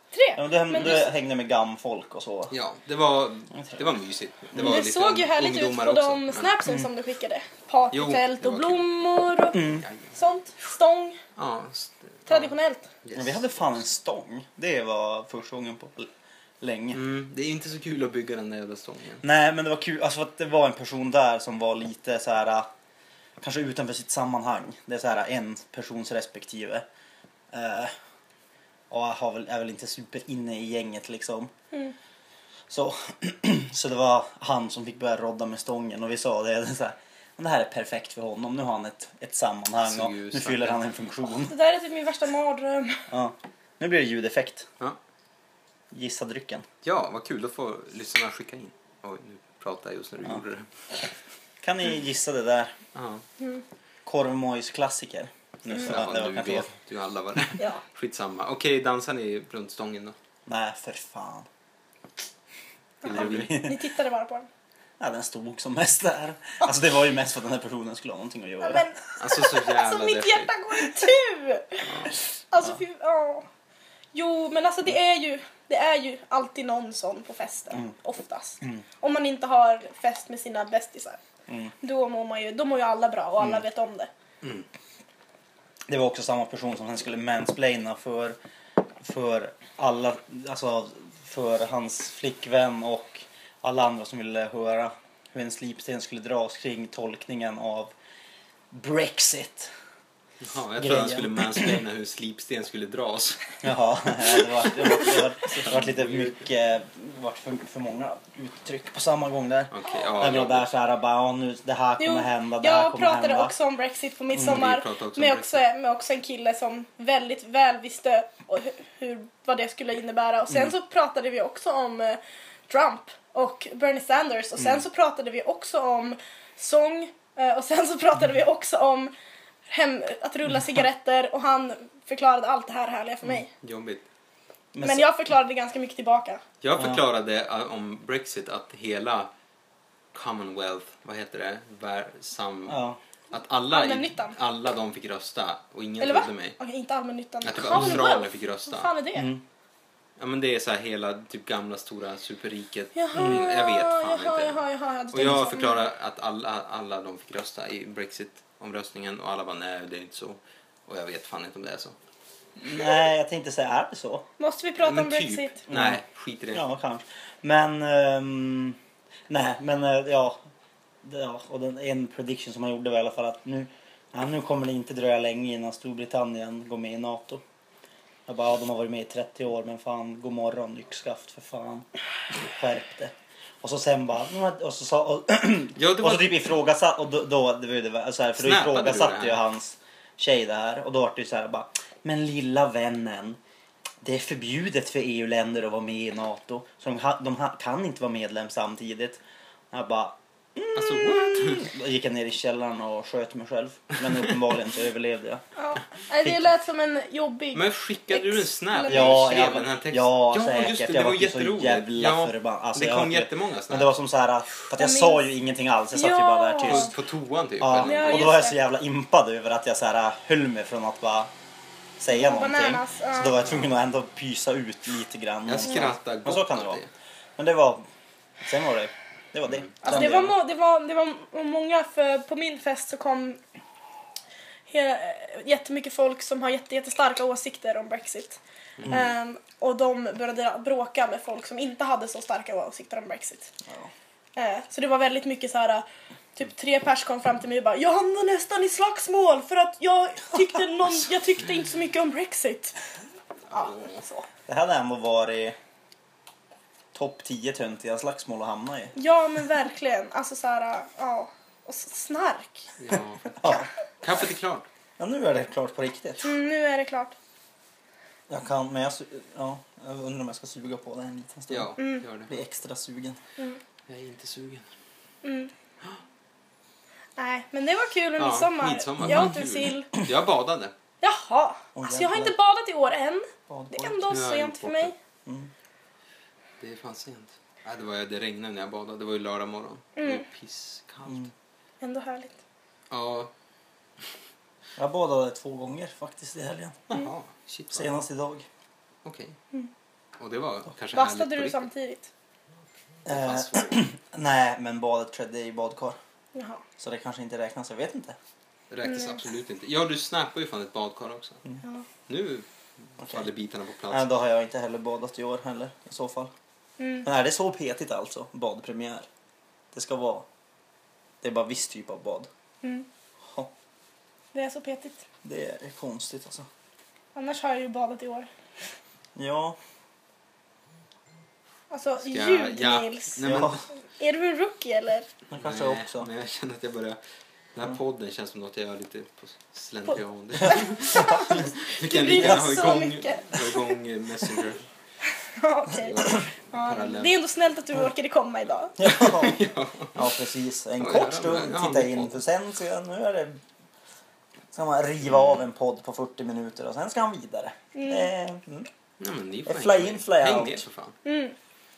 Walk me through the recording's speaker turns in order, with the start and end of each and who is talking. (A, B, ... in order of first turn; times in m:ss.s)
0:00.1-0:01.1 A
0:00.4-0:02.5 B
0:02.5-0:06.6 C
0:04.6-0:11.2 A
0:07.9-0:08.8 C
0:09.5-0:09.8 B
0:09.5-0:10.2 C
0:11.4-0:12.5 C
0:12.3-0:12.9 A
0:13.0-0:13.7 C
0:13.2-0:17.0 B
0:16.9-0:19.2 C
0:19.2-0:22.7 B
0:23.4-0:26.8 B
0:27.5-0:27.9 B
0:28.9-0:31.5 B
0:32.7-0:41.6 B
0:39.8-0:40.8 C
0:41.5-0:43.0 A
0:43.1-0:44.7 B
0:45.9-0:46.6 B
0:46.8-0:50.7 C
0:51.6-0:52.7 B
0:52.9-0:53.2 C
0:54.0-0:56.7 B
0:55.7-1:00.2 C
1:00.5-1:01.5 B
1:03.0-1:04.5 A
1:03.0-1:03.8 B
1:03.0-1:03.5 C
1:05.0-1:08.9 B
1:08.6-1:13.5 A
1:09.2-1:10.5 C
1:11.8-1:12.1 C
1:14.1-1:21.2 A
1:21.8-1:24.1 A
1:25.9-1:28.4 B
1:29.0-1:37.9 B
1:38.7-1:39.7 B
1:40.4-1:43.4 C
1:40.8-1:41.8 B
1:43.6-1:53.5 B
1:44.4-1:46.3 C
1:49.7-1:50.7 C
1:52.0-2:09.1 A
1:54.4-1:55.6 C
2:09.7-2:13.5 A
2:13.5-2:14.0 C
2:14.7-2:15.1 B
2:14.8-2:16.4 A
2:16.6-2:19.3 C
2:20.1-2:26.6 C
2:22.7-2:23.0 B
2:23.7-2:24.4 A
2:26.0-2:29.3 A
2:27.4-2:28.9 C
2:27.7-2:28.0 B
2:29.1-2:29.4 B
2:30.2-2:42.0 C
2:32.9-2:35.8 A
2:42.6-2:44.3 B
2:44.4-2:45.6 A
2:44.8-2:46.6 C
2:45.7-2:46.0 B
2:46.5-2:50.4 B
2:51.0-2:57.4 B
2:58.3-3:13.4 B
3:05.8-3:06.5 C
3:08.4-3:09.4 C
3:14.0-3:25.4 B
3:20.7-3:21.7 C
3:25.6-3:29.5 A
3:27.5-3:33.9 C
3:28.9-3:36.9 B
3:34.8-3:35.2 A
3:35.9-3:36.9 A
3:36.6-3:38.3 C
3:37.6-3:41.3 B
3:37.8-3:38.6 A
3:42.0-3:46.8 B
3:42.1-3:43.5 A
3:45.4-3:46.9 C
3:47.4-3:47.8 B
3:48.4-3:50.4 B
3:49.5-3:50.1 C
3:49.8-3:53.4 A
3:54.7-4:03.5 A
3:58.8-3:59.0 C
4:04.4-4:12.8 A
4:13.5-4:14.0 C
4:13.5-4:14.2 A
4:14.5-4:15.6 B
4:16.9-4:18.9 B
4:19.0-4:22.7 A
4:22.8-4:23.4 C
4:23.4-4:23.7 B
4:24.0-4:24.7 C
4:25.0-4:26.4 B
4:26.2-4:27.1 A
4:28.3-4:33.2 B
4:31.5-4:32.3 C
4:31.8-4:32.0 A
4:33.9-4:34.7 C
4:35.2-4:35.5 A
4:37.2-4:39.9 A
4:38.2-4:40.7 C
4:41.0-4:44.9 A
4:41.7-4:42.3 B
4:43.5-4:44.1 B
4:44.1-4:44.9 C
4:45.2-4:45.5 B
4:46.6-4:51.3 C
4:50.0-4:50.2 A
4:51.8-4:52.4 A
4:52.9-4:53.3 C
4:54.8-4:56.8 B
4:56.9-4:57.9 C
4:57.7-4:58.4 B
4:59.0-4:59.4 C
5:00.2-5:01.7 C
5:00.9-5:02.1 A
5:03.0-5:03.8 C
5:03.0-5:06.0 B
5:06.3-5:06.6 A
5:06.8-5:08.2 B
5:08.7-5:11.4 C
5:12.1-5:14.1 C
5:13.9-5:16.3 B
5:16.8-5:17.0 A
5:17.0-5:19.1 B
5:19.7-5:20.2 B
5:21.2-5:22.3 B
5:22.6-5:22.9 A
5:24.3-5:25.0 A
5:25.2-5:26.5 B
5:27.1-5:28.3 A
5:29.2-5:29.6 B
5:31.7-5:33.3 A
5:32.1-5:33.6 C
5:33.2-5:33.6 B
5:34.0-5:35.1 A
5:35.3-5:36.1 B
5:35.3-5:37.0 C
5:37.5-5:44.6 C
5:40.4-5:43.8 A
5:41.0-5:41.3 B
5:42.1-5:42.7 B
5:45.2-5:48.8 A
5:45.8-5:47.1 C
5:48.8-5:53.4 B
5:48.8-5:50.0 C
5:50.8-5:52.2 C
5:54.5-5:58.7 B
5:57.7-5:58.1 A
5:59.0-6:00.9 C
5:59.4-6:00.6 B
6:01.0-6:01.3 A